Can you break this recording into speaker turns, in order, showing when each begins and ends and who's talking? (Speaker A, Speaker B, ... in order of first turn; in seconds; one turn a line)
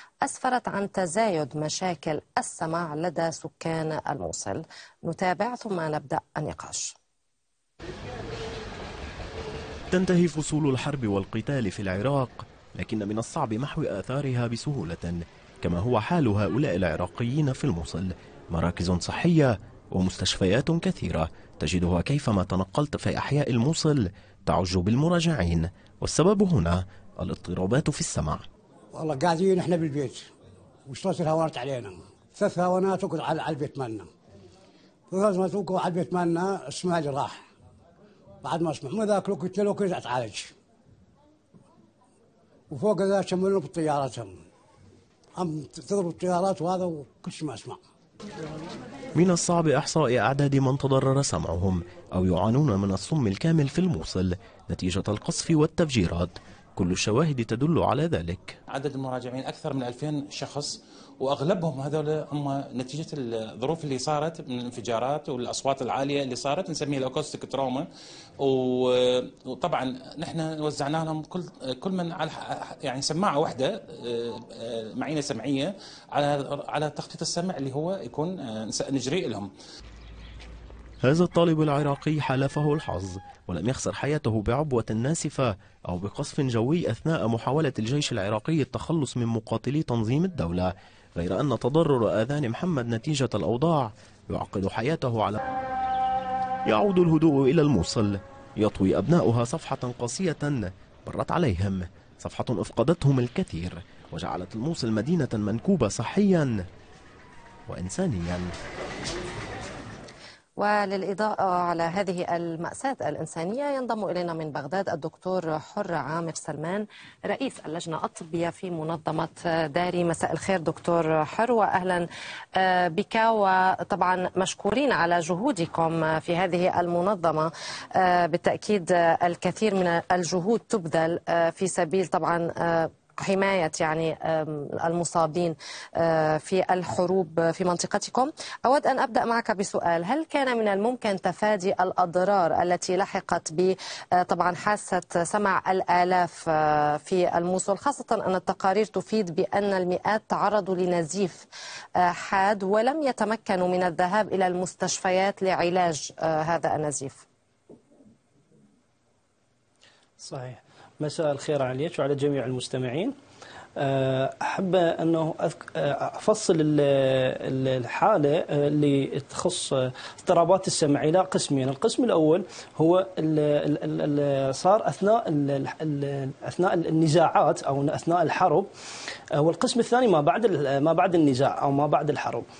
Speaker A: 0.2-7.0
Speaker B: 9.9-28.4
Speaker C: 28.9-30.3
Speaker C: 30.9-34.1
Speaker C: 35.1-37.5
Speaker C: 38.4-40.5
Speaker C: 42.7-44.5
Speaker C: 45.4-47.8
Speaker B: 49.1-58.6
Speaker D: 58.7-67.9
Speaker D: 68.4-74.2
Speaker D: 74.8-79.5
Speaker B: 81.0-95.4
Speaker B: 96.7-106.7
Speaker B: 107.7-108.5
Speaker A: 110.6-157.2
Speaker E: 160.2-163.2
Speaker E: 163.8-178.7
Speaker E: 179.3-182.4